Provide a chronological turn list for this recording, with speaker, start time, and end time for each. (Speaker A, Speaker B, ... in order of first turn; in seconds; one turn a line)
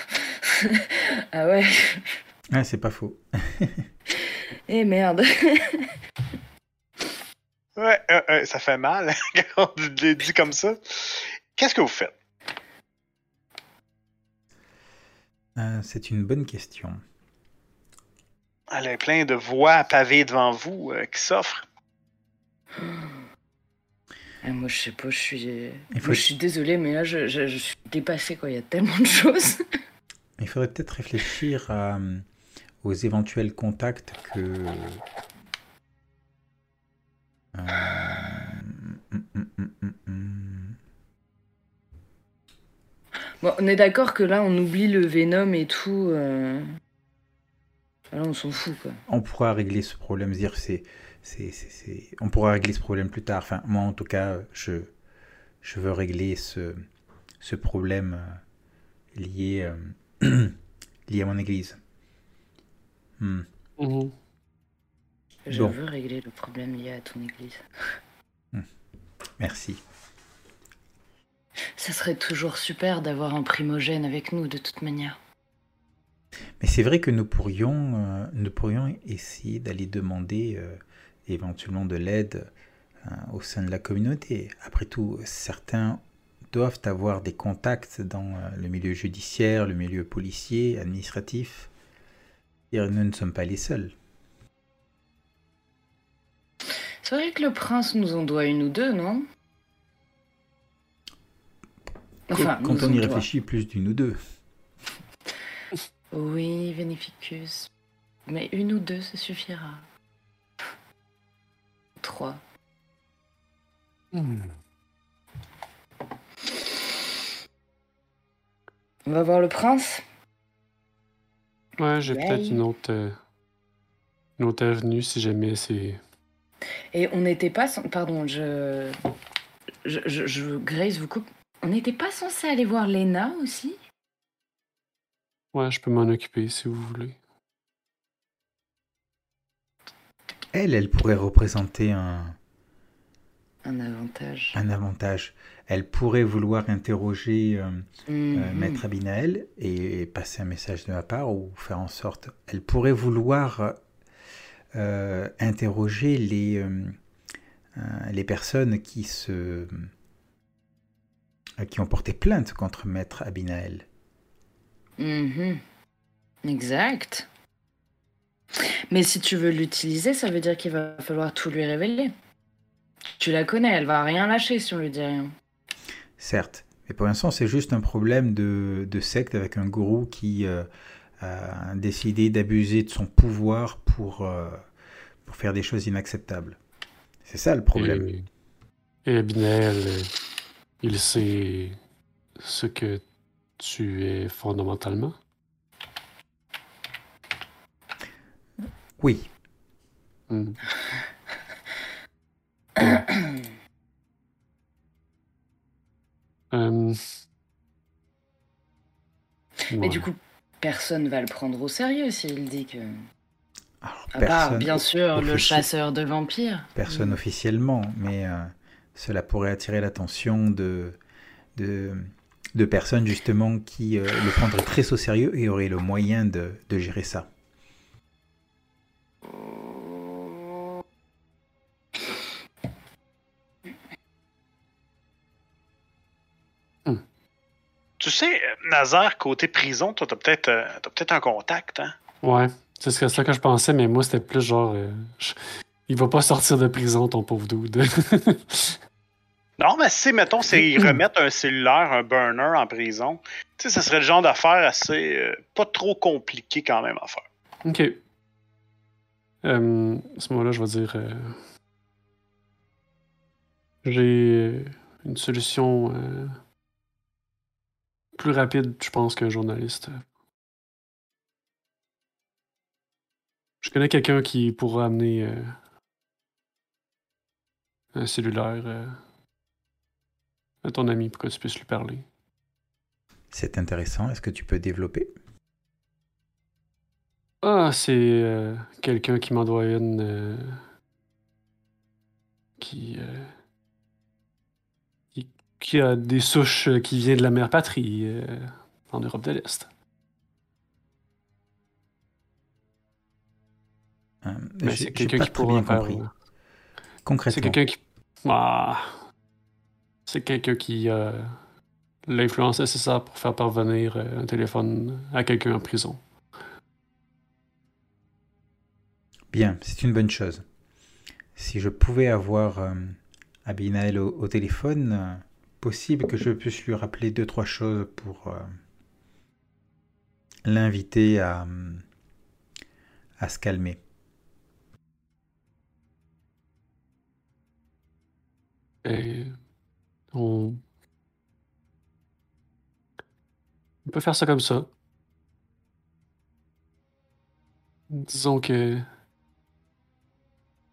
Speaker A: 0.5-2.1
Speaker B: 2.5-3.9
Speaker A: 4.7-5.9
Speaker C: 7.8-12.1
Speaker B: 15.6-17.0
Speaker C: 18.7-21.6
Speaker A: 22.8-23.1
Speaker A: 24.4-29.6
Speaker B: 25.9-26.3
Speaker B: 30.4-32.2
Speaker B: 32.8-35.0
Speaker B: 37.5-40.8
Speaker A: 43.4-46.6
Speaker A: 48.1-49.0
Speaker B: 49.1-54.9
Speaker B: 55.6-56.8
Speaker B: 57.4-58.4
Speaker B: 59.1-60.6
Speaker B: 61.1-61.8
Speaker B: 63.2-63.5
Speaker D: 63.8-64.1
Speaker A: 65.5-67.6
Speaker B: 65.5-65.8
Speaker B: 69.4-69.8
Speaker A: 71.8-75.2
Speaker B: 76.6-82.5
Speaker B: 83.0-91.7
Speaker B: 92.7-93.9
Speaker A: 97.0-99.2
Speaker A: 102.3-103.2
Speaker B: 102.3-104.2
Speaker A: 106.1-107.7
Speaker A: 108.3-109.8
Speaker A: 112.0-112.4
Speaker D: 114.1-114.5
Speaker A: 119.0-120.0
Speaker D: 121.8-123.2
Speaker A: 122.1-122.6
Speaker D: 124.4-126.0
Speaker A: 126.9-128.9
Speaker A: 129.8-133.8
Speaker D: 135.5-137.2
Speaker B: 140.5-142.3
Speaker A: 143.6-144.6
Speaker B: 144.5-153.8
Speaker A: 148.1-148.8
Speaker B: 154.7-157.0
Speaker B: 157.7-159.9
Speaker B: 161.6-163.8
Speaker A: 165.0-165.6
Speaker A: 166.4-167.3
Speaker A: 168.6-172.1
Speaker A: 173.2-175.3
Speaker B: 176.2-180.7
Speaker B: 181.2-184.6
Speaker B: 185.2-186.6
Speaker B: 187.2-188.1
Speaker D: 187.7-188.3
Speaker D: 189.1-190.1
Speaker D: 190.8-191.8
Speaker D: 192.4-193.0
Speaker D: 193.6-195.1
Speaker B: 199.0-199.3
Speaker D: 200.3-200.6
Speaker A: 202.8-203.4
Speaker D: 206.5-207.0
Speaker D: 209.7-210.1
Speaker A: 209.8-213.0
Speaker B: 213.8-215.7
Speaker A: 214.1-217.2
Speaker B: 216.7-221.0
Speaker B: 221.5-227.3
Speaker C: 238.0-241.9
Speaker D: 242.2-248.8
Speaker C: 249.6-257.2
Speaker D: 257.6-258.0
Speaker D: 259.4-261.4
Speaker D: 263.8-266.4
Speaker D: 268.2-270.0
Speaker D: 273.6-275.6
Speaker D: 277.9-279.0
Speaker D: 280.6-282.0
Speaker B: 283.3-285.1
Speaker D: 287.4-290.6
Speaker D: 292.6-293.3
Speaker D: 295.1-299.7
Speaker B: 304.2-306.0
Speaker D: 304.6-306.1
Speaker B: 307.0-307.6
Speaker D: 307.3-309.0
Speaker D: 310.1-311.4
Speaker D: 312.1-316.0
Speaker B: 319.3-320.4
Speaker B: 321.4-328.6
Speaker B: 330.4-331.8
Speaker B: 333.2-333.8
Speaker D: 338.8-339.4
Speaker D: 340.1-340.6
Speaker D: 343.8-344.7
Speaker D: 347.9-348.9